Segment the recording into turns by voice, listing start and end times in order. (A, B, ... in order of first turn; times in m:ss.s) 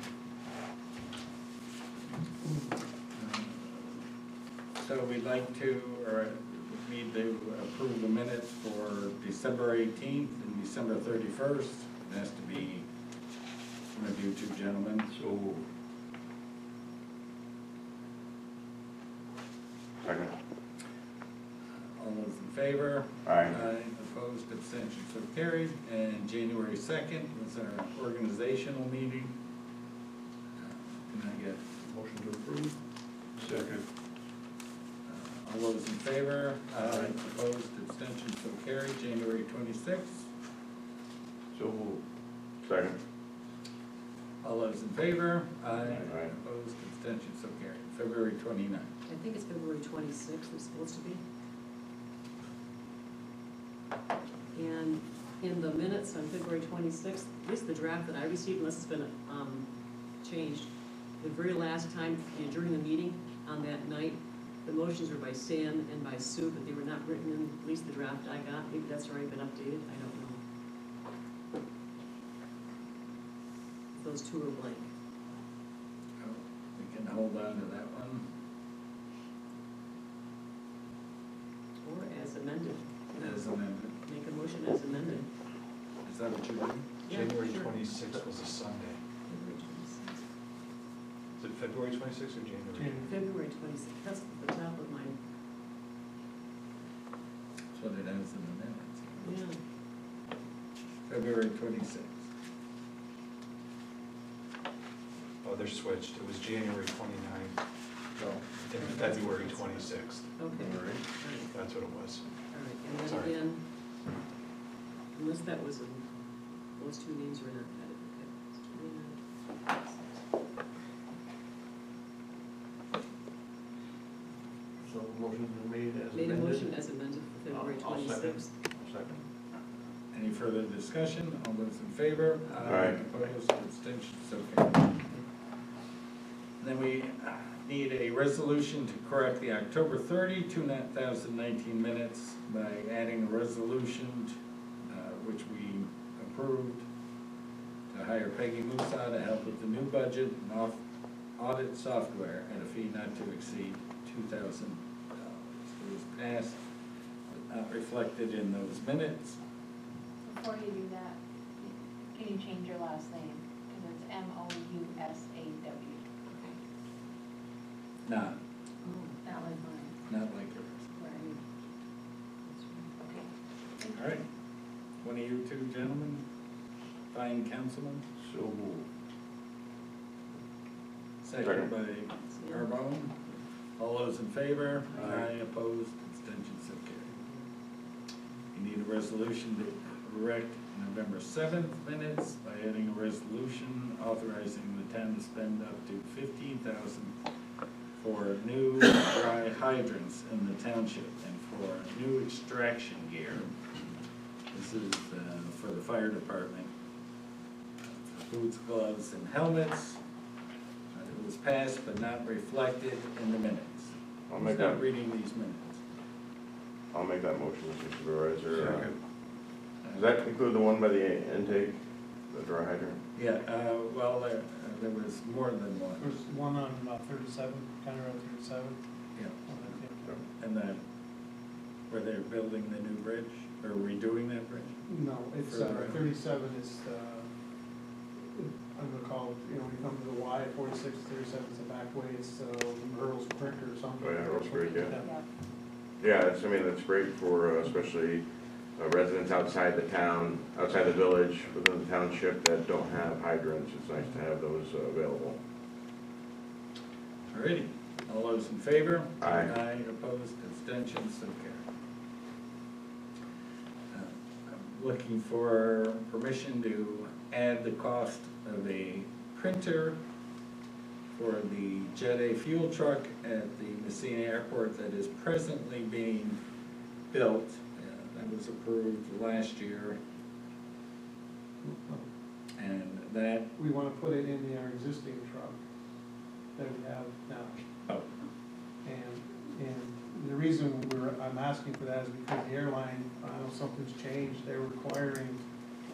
0:03.1-0:03.9 A
0:04.8-0:12.9 A
0:13.9-0:15.1 A
0:15.1-0:15.6 B
0:20.0-0:20.3 C
0:21.8-0:29.3 A
0:23.2-0:23.5 C
0:30.6-0:31.6 A
0:31.8-0:32.8 B
0:33.4-0:33.8 B
0:35.0-0:40.3 A
0:36.8-0:37.1 B
0:41.5-0:42.0 B
0:42.6-0:43.0 C
0:44.4-0:48.9 A
0:45.7-0:46.0 D
0:46.0-0:46.3 C
0:49.1-0:51.2 D
0:54.5-0:59.7 D
1:00.2-1:10.4 D
1:13.9-1:14.9 D
1:16.2-1:18.3 A
1:21.8-1:25.3 D
1:23.2-1:24.0 A
1:26.0-1:26.8 A
1:27.0-1:27.8 D
1:27.1-1:29.0 E
1:29.2-1:30.2 D
1:31.4-1:33.1 E
1:33.0-1:35.2 D
1:37.7-1:39.3 A
1:39.2-1:39.6 D
1:41.0-1:42.3 A
1:45.4-1:47.6 E
1:48.4-1:50.3 E
1:48.7-1:51.5 D
1:50.6-1:51.0 C
1:51.5-1:52.4 E
1:52.5-1:53.6 D
1:52.9-1:53.4 E
1:55.1-1:56.0 D
1:56.7-2:00.2 D
2:04.8-2:06.9 B
2:06.1-2:08.5 D
2:07.5-2:09.2 B
2:10.1-2:15.0 A
2:12.6-2:13.0 C
2:16.6-2:24.3 A
2:24.9-2:26.8 A
2:27.9-2:30.8 A
2:31.4-2:36.6 A
2:37.3-2:39.4 A
2:40.2-2:46.5 F
2:48.0-2:48.4 A
2:48.8-2:49.2 D
2:49.2-2:49.9 F
2:50.1-2:50.9 A
2:50.9-2:51.4 F
2:52.4-2:53.0 D
2:53.0-2:53.3 F
2:53.9-2:54.2 A
2:55.0-2:56.2 A
2:57.1-2:58.0 A
2:58.2-2:58.9 B
3:01.2-3:03.1 A
3:02.3-3:03.4 D
3:03.8-3:07.1 A
3:04.9-3:05.3 B
3:08.5-3:17.1 A
3:17.9-3:23.5 A
3:24.5-3:26.7 A
3:27.8-3:30.0 A
3:30.9-3:35.8 A
3:34.3-3:34.8 C
3:36.9-3:38.9 C
3:39.8-3:40.1 A
3:39.9-3:43.0 C
3:43.1-3:46.2 A
3:46.0-3:48.8 G
3:49.1-3:49.4 A
3:49.5-3:50.0 G
3:50.4-3:50.8 A
3:51.9-3:56.1 A
3:54.9-3:57.2 G
3:58.3-4:04.6 G
4:04.0-4:05.0 C
4:04.6-4:05.2 F
4:06.0-4:15.4 C
4:17.3-4:21.6 A
4:19.2-4:19.5 C
4:23.9-4:30.0 A
4:31.1-4:36.4 A
4:37.1-4:40.0 A
4:41.6-4:42.0 G
4:42.6-4:43.5 A
4:43.6-4:45.6 G
4:46.6-4:47.6 G
4:48.8-4:55.4 G